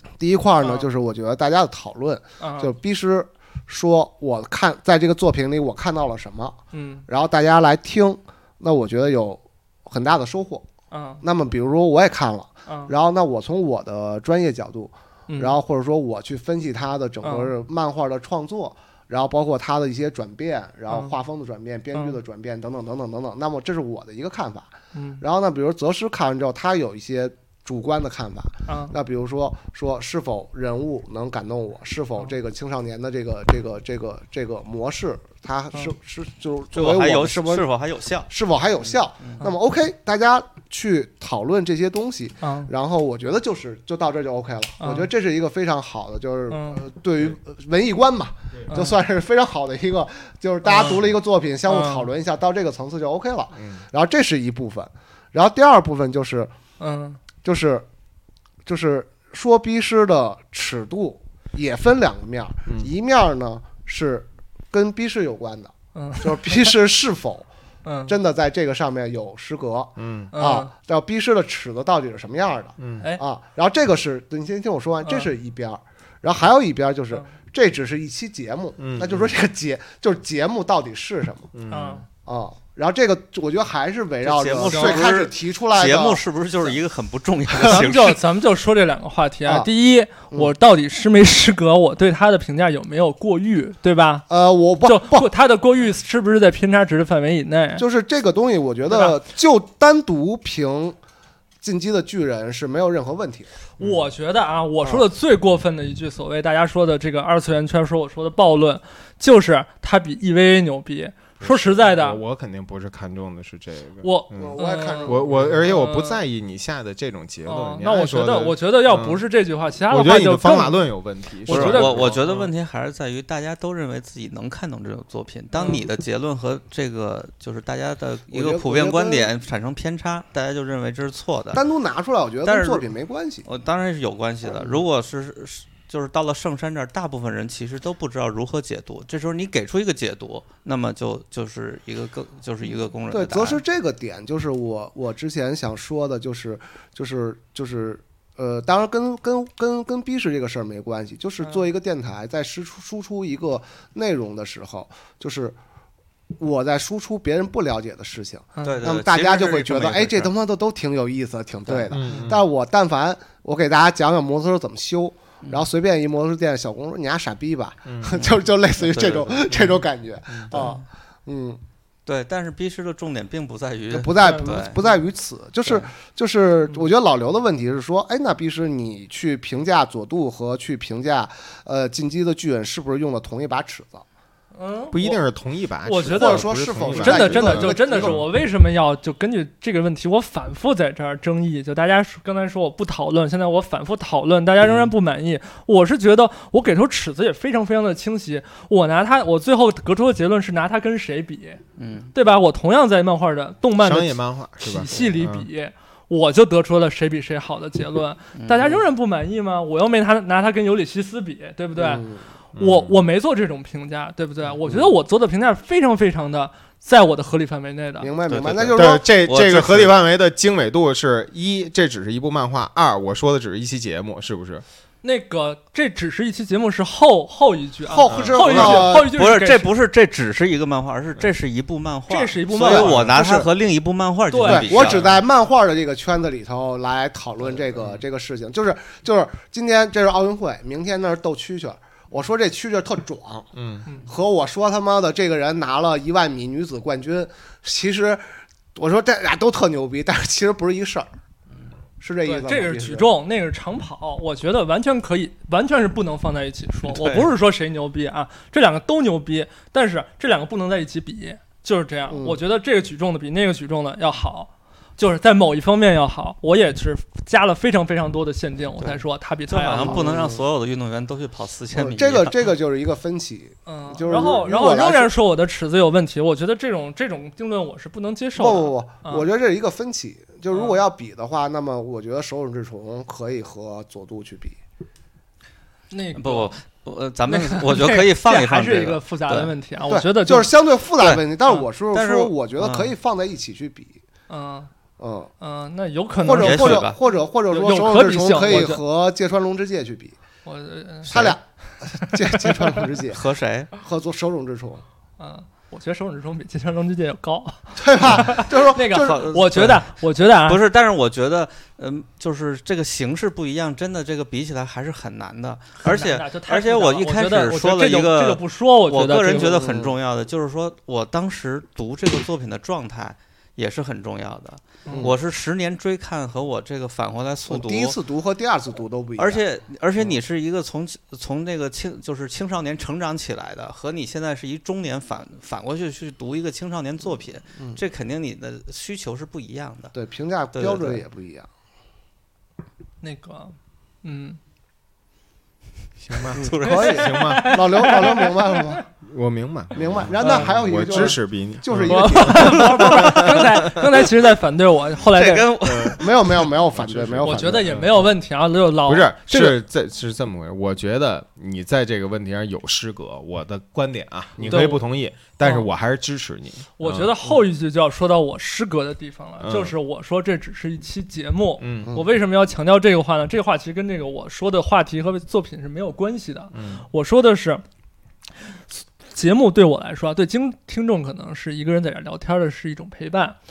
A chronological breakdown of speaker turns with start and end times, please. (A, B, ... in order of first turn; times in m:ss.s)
0:00.2-0:10.6 A
0:00.6-0:00.9 B
0:02.4-0:02.7 B
0:06.7-0:07.0 B
0:10.9-0:11.2 B
0:11.2-0:37.6 A
0:12.7-0:12.9 B
0:15.3-0:15.6 B
0:17.2-0:17.5 B
0:24.9-0:25.2 B
0:28.7-0:28.9 B
0:36.7-0:38.3 C
0:38.3-0:56.5 A
0:38.8-0:39.4 C
0:42.4-0:42.7 B
0:44.8-0:45.1 B
0:46.5-0:46.8 B
0:48.7-0:49.0 B
0:50.6-0:51.0 B
0:51.7-0:52.1 B
0:53.6-0:53.8 D
0:56.8-0:57.2 B
0:57.4-0:57.8 A
0:58.6-1:07.5 A
1:05.9-1:06.7 B
1:07.8-1:08.2 B
1:08.1-1:21.5 A
1:10.0-1:10.3 D
1:10.3-1:10.7 B
1:12.8-1:13.1 D
1:15.0-1:15.3 B
1:18.8-1:19.3 D
1:21.5-1:22.0 D
1:21.7-1:22.0 B
1:22.2-1:26.2 A
1:24.2-1:28.2 C
1:24.7-1:25.1 B
1:27.5-1:27.8 A
1:27.6-1:34.3 B
1:34.3-1:35.3 A
1:34.8-1:37.8 B
1:37.8-1:41.0 A
1:38.9-1:39.2 B
1:41.6-1:43.5 A
1:43.8-1:44.1 D
1:43.8-1:52.2 B
1:44.8-1:45.1 A
1:51.4-1:59.2 D
1:54.0-1:56.2 B
1:54.3-1:55.7 A
1:57.4-2:00.9 B
1:59.8-2:02.5 D
2:01.5-2:02.1 B
2:01.5-2:11.6 C
2:05.5-2:05.9 B
2:08.3-2:09.3 A
2:11.5-2:13.4 A
2:12.4-2:12.8 C
2:13.4-2:23.6 C
2:14.5-2:14.8 A
2:23.1-2:35.6 A
2:36.4-2:51.6 A
2:38.6-2:38.9 B
2:38.6-2:40.3 C
2:41.9-2:42.4 D
2:47.8-2:48.4 D
2:48.8-2:49.8 C
2:50.3-2:50.6 D
2:50.5-2:50.8 C
2:52.0-2:54.8 C
2:53.9-3:04.0 A
2:54.2-2:55.0 B
3:04.5-3:05.2 B
3:04.9-3:08.2 D
3:05.8-3:21.6 B
3:06.1-3:08.2 A
3:14.6-3:14.9 D
3:21.8-3:22.1 C
3:22.1-3:38.1 B
3:23.8-3:25.5 D
3:28.4-3:28.7 C
3:31.8-3:32.2 A
3:32.5-3:33.0 D
3:38.0-3:39.0 A
3:38.3-3:39.9 C
3:38.7-3:44.6 D
3:45.0-3:49.7 B
3:47.8-3:49.1 A
3:48.1-3:48.7 D
3:48.4-3:55.1 C
3:52.1-3:53.2 B
3:52.5-3:53.5 A
3:54.3-3:55.0 B
3:54.4-4:03.5 A
4:03.5-4:03.8 D
4:04.0-4:11.1 A
4:12.0-4:13.1 A
4:12.2-4:30.0 B
4:16.8-4:17.3 C
4:22.1-4:22.4 A
4:28.8-4:32.6 C
4:29.7-4:30.4 A
4:31.7-4:35.1 A
4:33.6-4:39.3 B
4:38.4-4:44.6 A
4:40.5-4:40.8 B
4:45.9-4:46.5 B
4:46.1-4:49.5 C
4:47.3-4:50.5 B
4:49.9-4:54.0 A
4:51.9-4:52.9 C
4:54.3-4:54.7 B
4:55.0-4:55.3 A
4:55.4-4:56.9 B
4:56.2-5:00.2 A
4:56.3-4:57.0 C
4:57.5-4:58.8 B
5:00.4-5:01.1 B
5:01.0-5:01.4 C
5:01.1-5:04.8 A
5:03.1-5:03.7 C
5:05.2-5:10.6 B
5:07.8-5:09.2 A
5:08.9-5:28.0 C
5:15.8-5:19.7 B
5:19.3-5:20.0 A
5:24.8-5:25.1 B
5:27.5-5:29.4 A
5:29.2-5:39.9 C
5:39.9-5:41.5 A
5:40.5-5:41.0 C
5:43.0-5:44.4 B
5:46.0-5:47.7 D
5:46.2-5:47.2 C
5:46.3-5:48.8 A
5:47.0-5:48.8 B
5:49.0-5:53.6 D
5:49.7-5:53.0 A
5:50.2-5:51.1 B
5:51.8-5:55.8 B
5:52.7-5:53.6 C
5:55.1-5:56.2 C
5:55.6-5:58.2 D
5:56.0-5:57.8 A
5:57.2-5:59.6 B
5:58.8-6:07.2 D
6:04.4-6:04.6 A
6:04.5-6:04.8 B
6:05.4-6:05.7 B
6:06.8-6:17.6 B
6:09.4-6:09.8 D
6:11.6-6:12.0 D
6:16.5-6:16.8 D
6:18.5-6:23.4 B